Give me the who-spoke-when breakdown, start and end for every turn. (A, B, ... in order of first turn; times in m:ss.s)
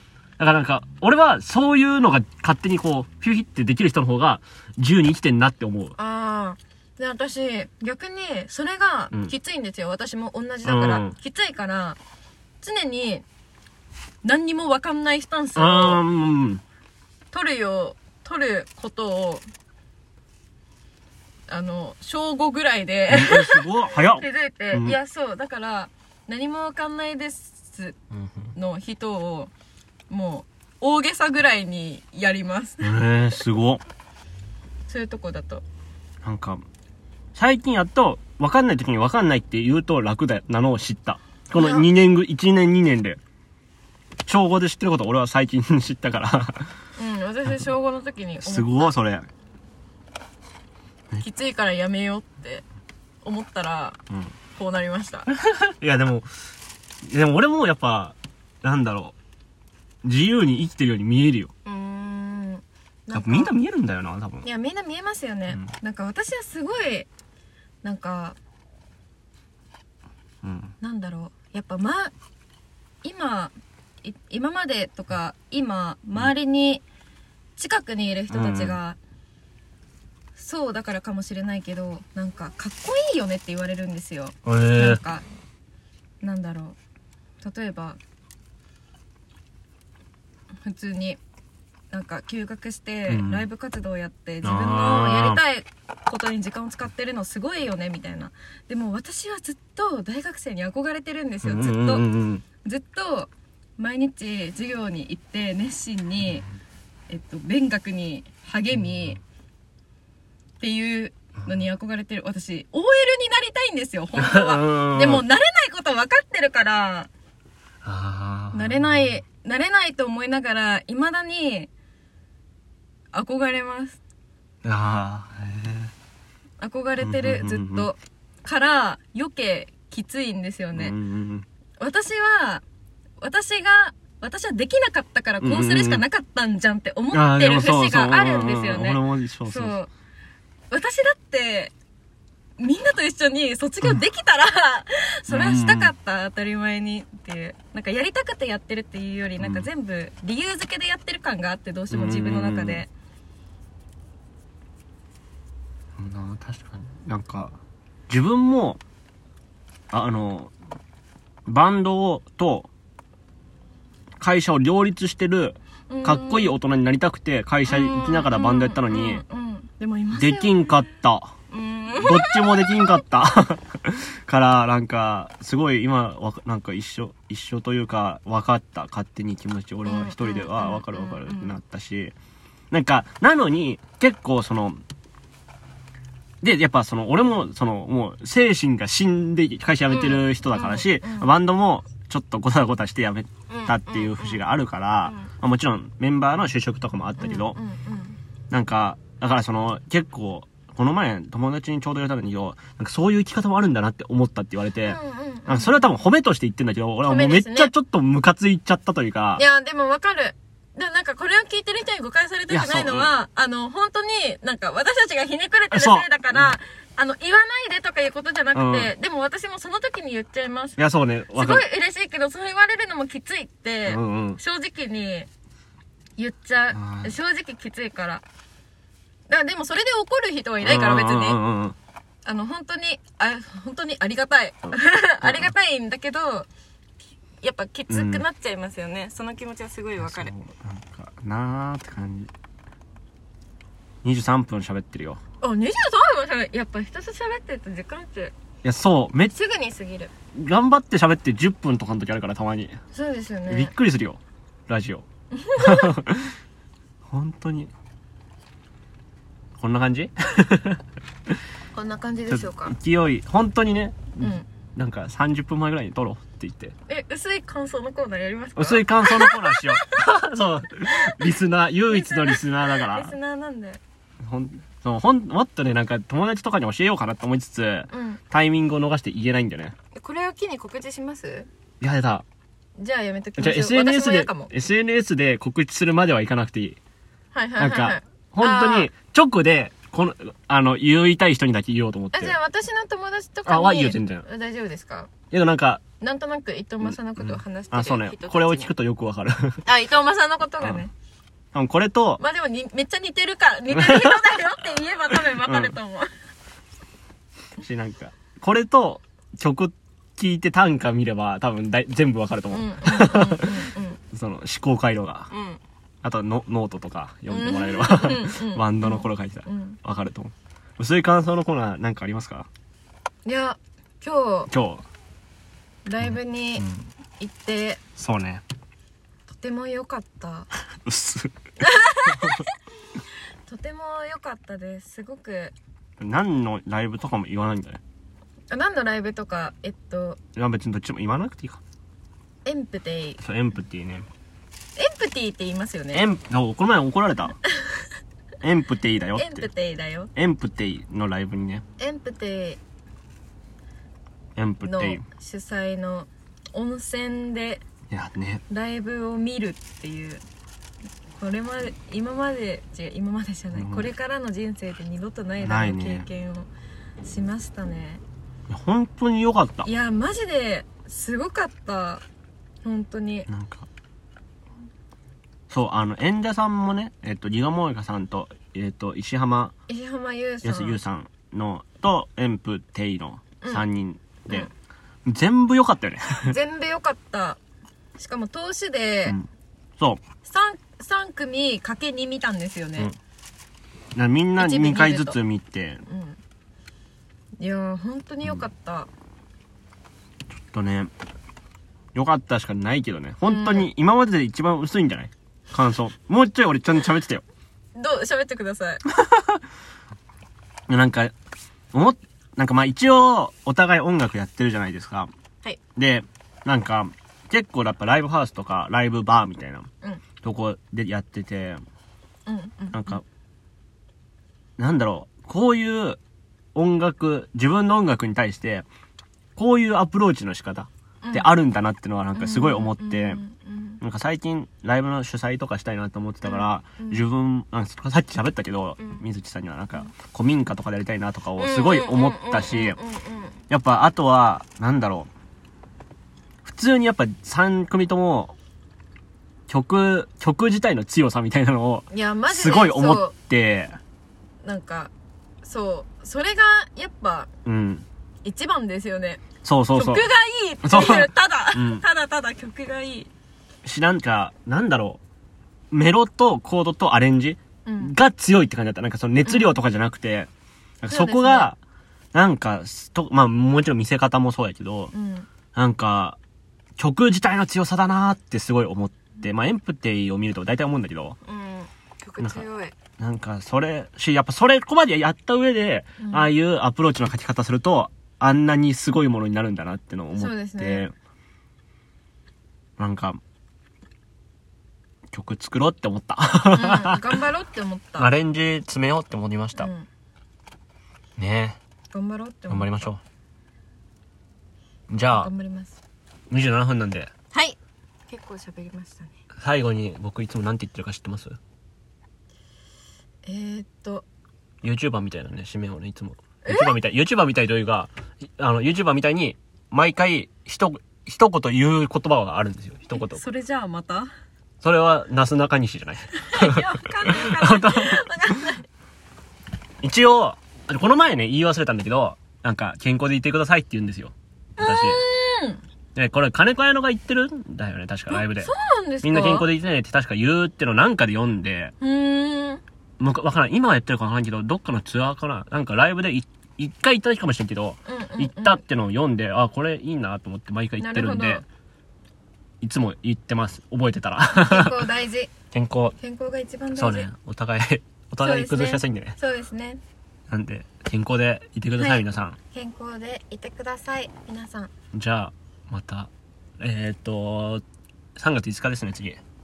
0:00.4-0:06.0 A
0:06.0-0:12.0 B
0:10.6-0:11.2 A
0:12.6-0:13.2 B
0:14.2-0:16.0 B
0:15.6-0:16.6 A
0:17.3-0:19.5 B
0:21.5-0:28.0 B
0:23.1-0:25.0 A
0:28.1-0:28.5 A
0:28.6-0:29.5 B
0:30.1-0:33.0 B
0:32.8-0:33.8 A
0:34.9-0:35.6 B
0:36.2-0:36.6 A
0:37.4-0:43.2 A
0:41.5-0:41.9 B
0:44.3-0:46.7 A
0:47.0-0:48.9 B
0:48.4-0:49.3 A
0:51.2-0:52.6 B
0:53.2-0:54.0 B
0:54.6-0:55.3 B
0:55.3-0:56.3 A
0:57.1-0:59.2 A
1:00.0-1:01.5 A
1:01.6-1:03.6 B
1:03.1-1:04.5 A
1:04.4-1:07.1 B
1:07.8-1:08.4 B
1:10.4-1:10.7 A
1:10.8-1:12.1 B
1:13.0-1:16.8 B
1:17.6-1:19.0 B
1:18.3-1:18.8 A
1:20.4-1:25.2 B
1:24.4-1:25.0 A
1:26.2-1:26.8 B
1:27.4-1:28.0 B
1:30.6-1:31.2 B
1:31.9-1:42.1 B
1:33.1-1:33.4 A
1:34.4-1:35.4 A
1:41.4-1:42.4 A
1:42.6-1:46.5 B
1:47.1-1:49.2 B
1:50.6-1:57.1 B
1:54.2-1:55.2 A
1:57.8-1:59.2 A
1:58.5-2:01.7 B
2:03.1-2:04.0 B
2:04.6-2:05.9 A
2:06.6-2:11.0 B
2:07.0-2:07.9 A
2:10.7-2:11.5 A
2:11.8-2:12.6 B
2:13.2-2:19.9 B
2:15.4-2:16.0 A
2:17.1-2:19.8 A
2:20.7-2:21.7 B
2:22.6-2:32.9 B
2:25.3-2:25.9 A
2:29.4-2:29.7 A
2:31.9-2:32.8 A
2:36.0-2:37.6 A
2:38.1-2:38.8 A
2:39.9-2:40.5 A
2:41.5-2:42.7 A
2:44.2-2:49.2 A
2:45.9-2:46.6 B
2:47.7-2:50.8 B
2:50.2-2:51.4 A
2:51.5-2:53.0 B
2:52.0-3:02.2 A
2:59.8-3:01.6 B
3:02.7-3:04.8 A
3:06.4-3:17.6 A
3:09.9-3:11.3 B
3:13.5-3:14.4 B
3:15.0-3:15.3 B
3:17.2-3:18.2 B
3:18.5-3:29.4 A
3:24.8-3:25.9 B
3:27.0-3:27.7 B
3:29.4-3:40.8 B
3:32.5-3:33.1 A
3:35.7-3:36.6 A
3:38.5-3:38.9 A
3:40.8-3:41.6 A
3:41.3-3:45.3 B
3:43.9-3:44.4 A
3:46.2-3:48.2 B
3:46.7-3:47.2 A
3:49.3-3:51.4 B
3:50.6-3:51.8 A
3:52.2-3:56.5 B
3:55.2-3:55.5 A
3:57.4-4:00.3 B
3:57.9-3:58.2 A
4:00.0-4:02.3 A
4:04.0-4:05.2 A
4:05.4-4:08.3 B
4:08.6-4:09.4 A
4:09.3-4:10.1 B
4:10.3-4:12.8 A
4:12.9-4:13.7 B
4:13.5-4:16.4 A
4:15.3-4:15.9 B
4:17.1-4:17.7 A
4:19.6-4:20.8 A
4:21.7-4:22.8 B
4:22.3-4:26.8 A
4:26.9-4:30.0 B
4:28.6-4:33.2 A
4:30.9-4:31.4 B
4:31.9-4:33.8 B
4:34.2-4:39.8 A
4:37.9-4:38.2 B
4:40.0-4:41.5 B
4:41.8-4:42.2 A
4:42.8-4:44.5 B
4:43.4-4:46.8 A
4:47.3-4:48.9 B
4:47.6-4:52.4 A
4:52.1-4:55.1 B
4:53.5-4:54.2 A
4:55.3-4:55.8 A
4:56.0-4:58.7 B
4:56.9-4:59.6 A
4:59.6-5:00.9 B
5:01.5-5:02.2 A
5:02.2-5:06.1 B
5:03.7-5:04.6 A
5:05.1-5:05.8 A
5:07.6-5:13.6 A
5:12.5-5:14.0 B
5:14.1-5:15.3 A
5:15.3-5:15.6 B
5:16.0-5:22.5 A
5:17.3-5:19.8 B
5:23.2-5:24.5 B
5:24.5-5:24.8 A
5:25.9-5:26.6 B
5:26.0-5:26.9 A
5:27.2-5:27.8 B
5:28.0-5:28.4 A
5:29.3-5:30.5 B
5:30.8-5:31.4 A
5:31.6-5:32.5 B
5:32.0-5:32.5 A
5:33.5-5:35.5 B
5:36.0-5:37.8 A
5:38.5-5:40.2 B
5:40.4-5:41.6 A
5:42.4-5:43.2 B
5:43.2-5:44.1 A
5:44.8-5:46.0 B
5:45.9-5:47.4 A
5:47.5-5:47.9 B
5:48.4-5:49.5 A
5:49.2-5:50.1 B
5:50.2-5:51.6 A
5:51.8-5:52.6 B
5:54.4-5:55.0 A
5:54.6-5:57.6 B
5:57.9-5:58.4 A
5:58.5-6:00.2 B
6:01.2-6:06.5 B
6:03.5-6:03.9 A
6:05.4-6:06.1 A
6:07.0-6:08.0 B
6:08.5-6:09.7 A
6:09.6-6:12.0 B
6:12.6-6:13.3 B
6:13.3-6:13.7 A
6:15.5-6:19.5 A
6:19.7-6:20.8 B
6:20.4-6:24.5 A
6:25.1-6:26.4 A
6:26.2-6:27.4 B
6:28.0-6:29.2 B
6:30.2-6:32.9 B
6:34.0-6:35.8 A
6:34.4-6:35.2 B
6:35.9-6:36.2 B
6:37.4-6:38.9 B
6:40.3-6:40.9 A
6:42.0-6:47.2 A
6:43.2-6:43.7 B
6:47.8-6:48.8 B
6:49.0-6:49.3 A
6:50.7-6:51.1 A
6:51.7-6:55.1 A
6:55.8-6:59.7 A
7:00.2-7:01.6 A
7:02.3-7:03.0 B
7:02.7-7:03.0 A
7:04.6-7:06.0 A
7:06.6-7:08.7 A
7:09.4-7:13.2 A
7:11.0-7:11.4 B
7:12.2-7:13.8 B
7:13.8-7:22.8 A
7:16.2-7:17.0 B
7:21.4-7:23.4 B
7:23.5-7:25.1 A
7:26.4-7:28.4 A
7:29.5-7:33.8 A
7:31.9-7:33.1 B
7:34.4-7:37.3 B
7:37.4-7:37.9 A
7:38.2-7:39.2 B
7:39.4-7:40.1 A
7:39.7-7:43.1 B
7:40.6-7:41.8 A
7:43.6-7:45.0 A
7:45.7-7:50.3 A
7:47.6-7:47.9 B
7:49.2-7:49.6 B
7:50.8-7:51.6 A
7:50.9-7:51.5 B
7:52.1-7:54.9 A
7:54.9-7:55.3 B
7:55.5-7:56.2 A
7:56.8-8:01.2 A
8:01.2-8:02.8 B
8:03.0-8:10.9 A
8:06.0-8:06.3 B
8:10.2-8:10.9 B
8:12.8-8:13.2 A
8:15.1-8:17.2 A
8:16.5-8:18.1 B
8:18.0-8:19.7 A
8:19.6-8:19.9 B
8:21.2-8:21.6 A
8:21.9-8:22.8 B
8:22.5-8:23.0 A
8:24.9-8:25.3 A
8:25.1-8:25.8 B
8:26.3-8:27.1 A
8:27.3-8:29.1 B
8:29.4-8:31.4 A
8:33.2-8:34.1 B
8:34.6-8:43.2 A
8:36.4-8:36.8 B
8:42.9-8:44.1 B
8:44.6-8:48.0 A
8:46.2-8:48.7 B
8:49.8-8:55.0 A
8:54.6-8:55.6 B
8:56.0-8:58.5 A
8:58.1-8:59.5 B
8:59.0-9:01.7 A
9:01.8-9:02.6 B
9:03.0-9:11.4 A
9:07.9-9:08.6 B
9:10.8-9:11.4 B
9:12.6-9:14.9 A
9:14.3-9:15.3 B
9:15.5-9:16.0 A
9:16.0-9:17.1 B
9:16.8-9:19.2 A
9:18.2-9:19.8 B
9:20.3-9:22.4 A
9:21.8-9:24.7 B
9:24.9-9:27.6 A
9:28.2-9:29.2 A